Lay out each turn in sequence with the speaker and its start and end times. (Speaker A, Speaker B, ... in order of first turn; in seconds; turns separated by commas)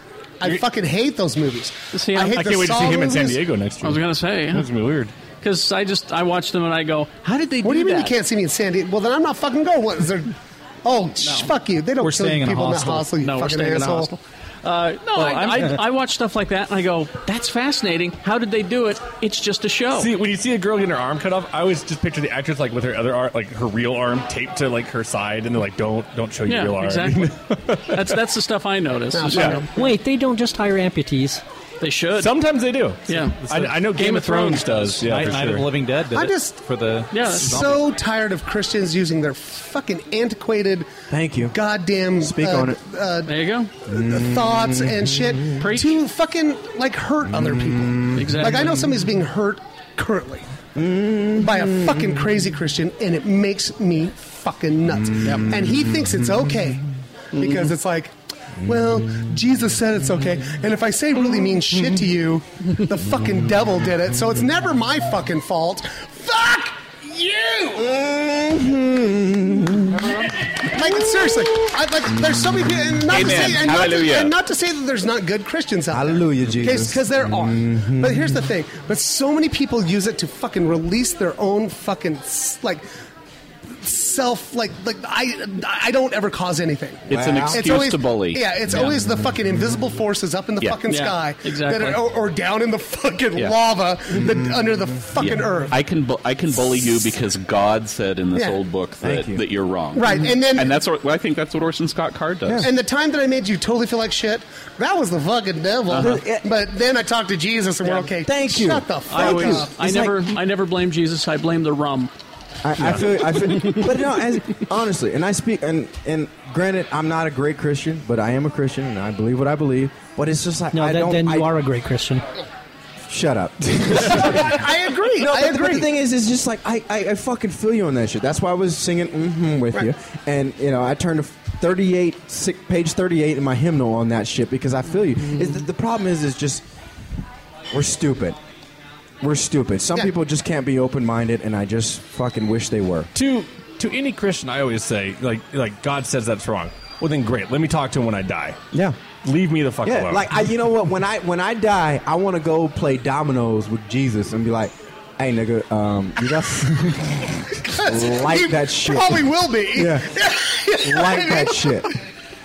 Speaker A: 0.4-3.4, Speaker B: 1.9-2.4, Speaker C: 2.3-5.1, Speaker B: 3.8-4.7, Speaker B: 5.4-8.1, Speaker A: 7.6-14.1, Speaker B: 11.2-11.5, Speaker D: 12.0-13.1, Speaker B: 13.2-20.1, Speaker D: 15.2-15.7, Speaker C: 19.9-28.2, Speaker B: 26.5-29.8, Speaker A: 29.1-29.7, Speaker C: 29.3-29.6, Speaker E: 29.7-31.4, Speaker B: 31.8-32.4, Speaker C: 32.2-35.7, Speaker B: 33.1-35.0, Speaker D: 33.4-33.8, Speaker D: 35.0-37.9, Speaker A: 36.1-36.6, Speaker B: 37.1-37.6, Speaker A: 37.2-40.9, Speaker F: 41.1-41.6, Speaker A: 41.5-50.5, Speaker F: 42.2-42.8, Speaker B: 43.3-43.7, Speaker F: 43.9-45.7, Speaker B: 45.6-46.0, Speaker F: 47.3-48.4, Speaker B: 48.1-48.9, Speaker F: 50.8-52.2, Speaker A: 51.4-67.9, Speaker F: 55.1-55.9, Speaker B: 57.4-57.7, Speaker F: 58.6-59.0, Speaker F: 67.8-70.2, Speaker A: 70.6-82.8, Speaker G: 73.1-74.4, Speaker F: 75.9-78.4, Speaker A: 83.7-95.8, Speaker G: 87.1-88.6, Speaker F: 87.1-87.9, Speaker B: 90.9-92.0, Speaker G: 95.2-102.7, Speaker F: 99.0-99.4, Speaker A: 100.0-100.7, Speaker F: 102.5-102.7, Speaker A: 102.6-109.7, Speaker F: 105.9-106.5, Speaker F: 108.2-110.3, Speaker B: 109.1-112.1, Speaker F: 112.6-121.5, Speaker B: 112.8-113.9, Speaker E: 120.7-122.2, Speaker F: 123.1-136.6, Speaker A: 124.0-125.9, Speaker F: 137.7-138.4, Speaker F: 139.2-143.1, Speaker C: 143.2-148.6, Speaker F: 148.7-149.0, Speaker C: 149.2-150.3, Speaker F: 149.8-160.1, Speaker A: 157.7-161.9, Speaker F: 160.8-161.9